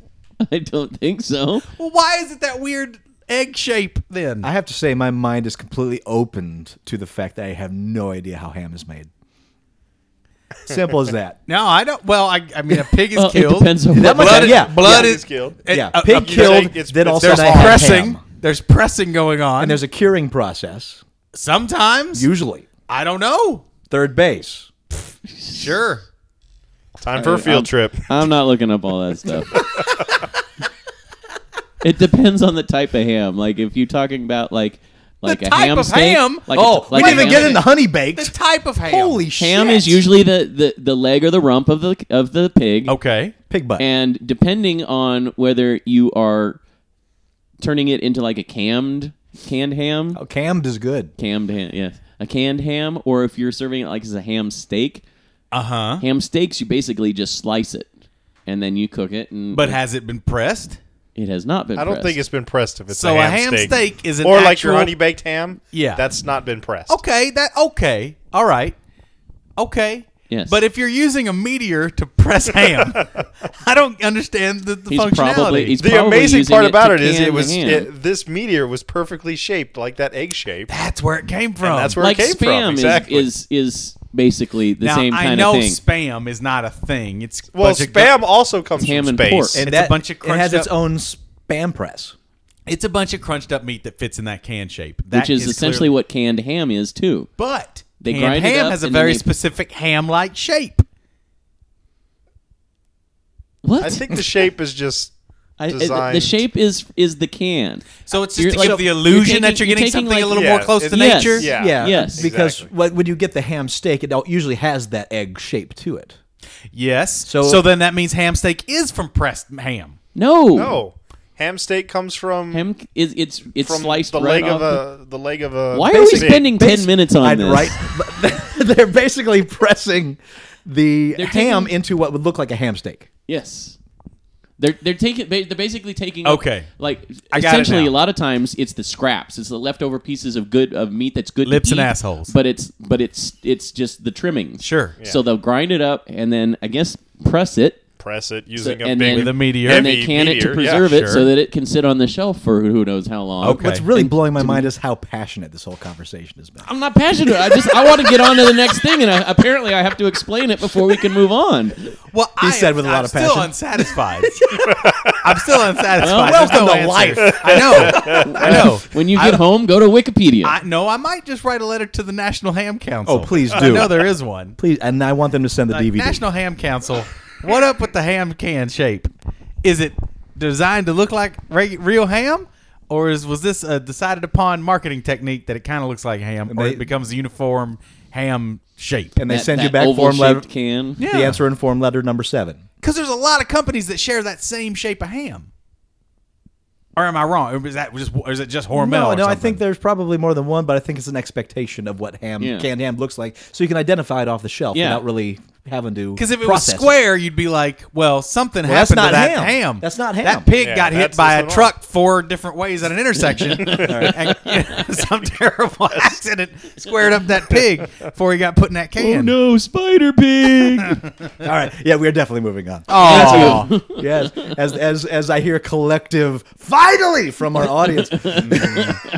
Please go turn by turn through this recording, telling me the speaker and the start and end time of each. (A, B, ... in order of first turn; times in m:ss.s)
0:00.4-0:01.7 A
0:01.7-0:04.5 B
0:04.4-0:09.1 C
0:10.7-0:11.4 C
0:11.5-0:19.8 B
0:13.1-0:14.6 A
0:13.9-0:15.1 C
0:14.5-0:15.6 D
0:15.7-0:18.2 C
0:16.1-0:18.0 D
0:19.6-0:21.0 C
0:21.3-0:22.3 B
0:22.1-0:22.7 C
0:22.9-0:23.7 B
0:23.9-0:24.7 C
0:25.5-0:26.0 B
0:27.0-0:28.1 D
0:27.2-0:29.6 A
0:31.8-0:37.6 A
0:35.2-0:39.2 B
0:36.5-0:40.0 C
0:39.4-0:43.0 A
0:42.9-0:43.4 B
0:43.5-0:43.8 C
0:43.8-0:46.6 A
0:47.6-0:50.2 A
0:50.1-0:51.1 C
0:51.2-0:55.0 A
0:55.5-0:56.0 B
0:56.0-0:57.9 A
0:58.5-0:59.8 A
0:59.5-1:00.8 B
1:01.2-1:02.2 A
1:01.8-1:07.0 D
1:02.9-1:05.0 B
1:05.7-1:06.0 B
1:06.9-1:08.8 B
1:09.6-1:15.8 B
1:10.3-1:10.6 A
1:14.9-1:17.9 A
1:15.8-1:20.7 D
1:20.7-1:22.0 B
1:21.6-1:23.3 D
1:22.0-1:25.8 A
1:24.8-1:28.2 B
1:27.5-1:29.6 D
1:28.8-1:29.6 A
1:29.5-1:32.2 C
1:29.6-1:30.7 B
1:32.7-1:35.9 B
1:35.1-1:37.3 A
1:37.4-1:40.8 B
1:38.0-1:39.3 A
1:43.6-1:44.2 A
1:43.8-1:45.1 D
1:45.6-1:52.3 A
1:45.7-1:46.4 D
1:48.1-1:51.6 B
1:48.5-1:48.8 C
1:50.3-1:52.7 D
1:51.6-1:56.2 C
1:56.7-2:00.0 B
1:57.2-1:57.6 C
2:00.2-2:00.8 A
2:00.5-2:02.7 D
2:02.5-2:04.8 A
2:03.6-2:06.4 D
2:05.7-2:07.8 A
2:05.9-2:13.1 C
2:11.1-2:11.7 A
2:13.3-2:13.8 A
2:14.6-2:27.8 A
2:16.2-2:16.7 B
2:17.3-2:17.9 B
2:21.5-2:22.4 B
2:24.6-2:25.0 B
2:28.0-2:30.9 D
2:28.6-2:34.7 A
2:29.1-2:29.9 B
2:30.8-2:31.3 B
2:33.4-2:33.9 B
2:33.5-2:36.7 C
2:36.6-2:41.9 A
2:42.1-2:44.4 B
2:42.4-2:44.8 C
2:45.1-2:49.5 B
2:46.0-2:46.5 A
2:46.0-2:48.6 C
2:47.2-2:48.5 D
2:48.2-2:50.6 A
2:50.4-2:54.6 B
2:53.1-2:56.2 C
2:55.7-2:59.1 B
2:59.6-3:09.2 B
3:06.5-3:06.8 C
3:09.2-3:10.5 C
3:09.3-3:11.0 A
3:11.0-3:12.6 C
3:11.0-3:11.4 B
3:12.8-3:15.5 B
3:17.0-3:19.6 B
3:18.7-3:27.0 C
3:22.4-3:22.7 A
3:24.7-3:25.0 A
3:26.2-3:39.4 B
3:28.6-3:30.5 C
3:30.6-3:31.7 D
3:33.6-3:34.8 A
3:33.8-3:34.3 C
3:39.0-3:41.0 A
3:41.4-3:49.0 C
3:42.9-3:43.8 B
3:42.9-3:44.0 A
3:48.1-3:48.9 A
3:48.3-3:49.0 B